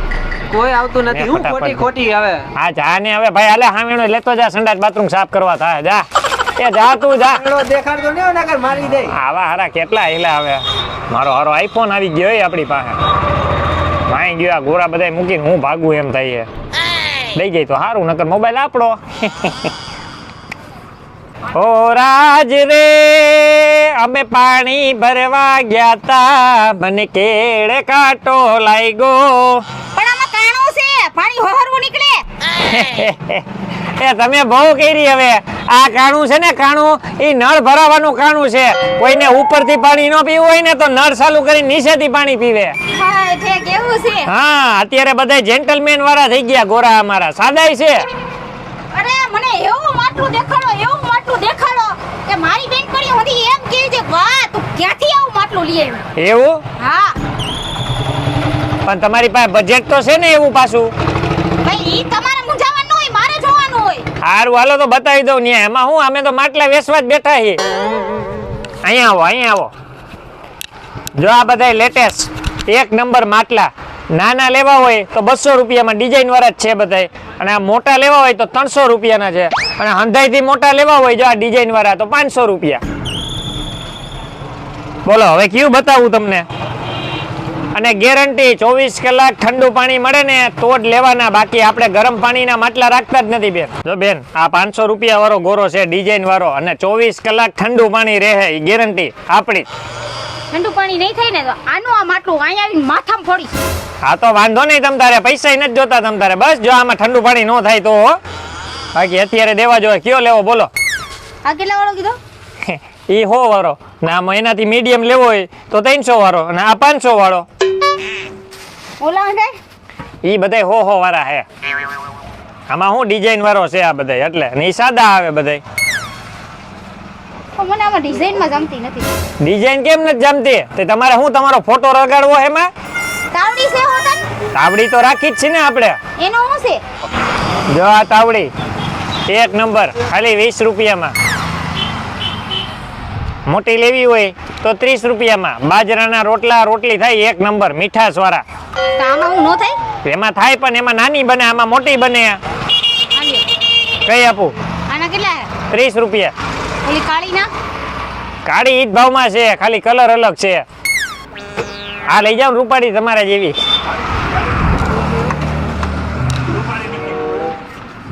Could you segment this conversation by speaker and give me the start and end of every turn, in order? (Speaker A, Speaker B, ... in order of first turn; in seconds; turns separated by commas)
Speaker A: 0.5-2.5, Speaker B: 1.1-1.9, Speaker B: 2.6-6.0, Speaker B: 6.6-7.4, Speaker A: 7.2-9.1, Speaker B: 8.9-13.0, Speaker B: 14.1-16.5, Speaker B: 17.4-19.7, Speaker B: 21.5-29.6, Speaker C: 30.0-32.2, Speaker B: 32.6-33.5, Speaker B: 34.0-42.8, Speaker C: 42.9-44.3, Speaker B: 44.2-48.1, Speaker C: 48.9-56.0, Speaker B: 56.2-56.6, Speaker C: 56.8-57.2, Speaker B: 58.9-60.9, Speaker C: 61.6-64.0, Speaker B: 64.2-67.6, Speaker B: 68.8-69.7, Speaker B: 71.2-82.8, Speaker B: 85.1-86.5, Speaker B: 87.7-99.7, Speaker C: 100.5-103.5, Speaker B: 104.0-108.2, Speaker B: 109.0-110.7, Speaker C: 111.5-112.2, Speaker B: 112.7-117.5, Speaker C: 119.0-119.6, Speaker B: 120.2-121.5, Speaker B: 122.7-125.6, Speaker C: 127.6-129.1, Speaker B: 129.4-132.7, Speaker C: 133.3-134.2, Speaker B: 134.5-136.0, Speaker C: 136.2-136.8, Speaker B: 137.7-138.5, Speaker B: 139.3-141.1, Speaker B: 143.5-148.4, Speaker C: 149.0-149.8, Speaker B: 150.1-152.4, Speaker C: 153.1-153.5, Speaker B: 154.1-154.5, Speaker C: 154.9-155.5, Speaker B: 155.7-156.3, Speaker C: 156.8-157.5, Speaker B: 158.4-160.7, Speaker B: 162.1-163.6